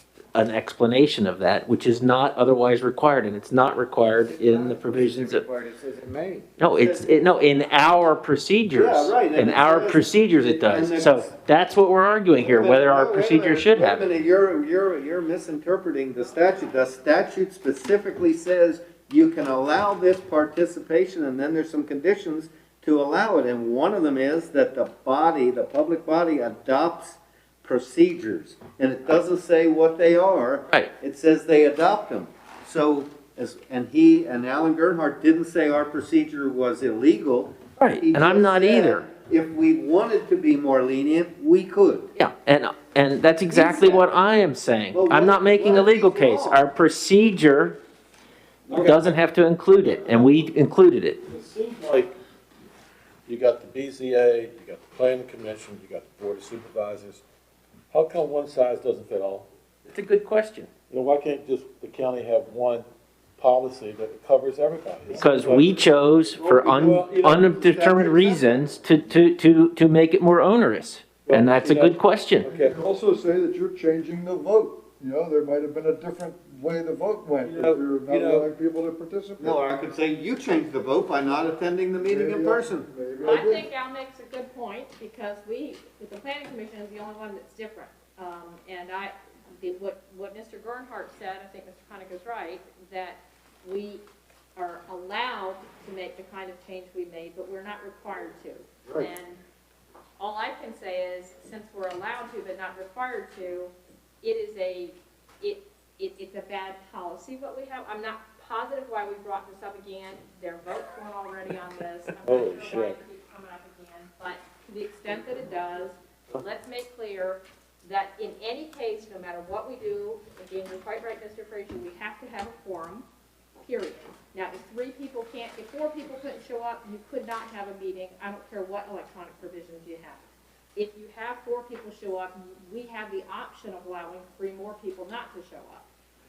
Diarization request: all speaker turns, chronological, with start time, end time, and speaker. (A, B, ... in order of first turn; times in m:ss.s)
0:00.3-0:05.4 A
0:04.0-0:07.4 B
0:06.6-0:14.0 A
0:08.7-0:11.3 B
0:12.4-0:42.1 B
0:37.8-0:39.0 A
0:42.2-0:47.8 A
0:43.5-0:44.1 B
0:44.9-0:46.6 B
0:48.7-0:49.2 C
0:48.8-0:51.2 A
0:50.0-0:50.3 C
0:51.2-0:52.1 C
0:53.3-0:57.2 C
0:57.9-0:59.5 C
0:59.9-1:00.7 A
1:00.9-1:02.9 C
1:03.4-1:06.0 C
1:05.1-1:12.5 A
1:06.4-1:08.7 B
1:06.6-1:07.5 C
1:11.3-1:12.8 C
1:12.5-1:19.6 D
1:17.4-1:18.5 C
1:19.4-1:22.9 B
1:22.0-1:23.7 D
1:23.2-1:34.0 E
1:34.6-1:39.4 E
1:40.2-1:43.7 E
1:44.2-2:03.0 E
1:52.2-1:53.0 C
2:03.6-2:15.8 E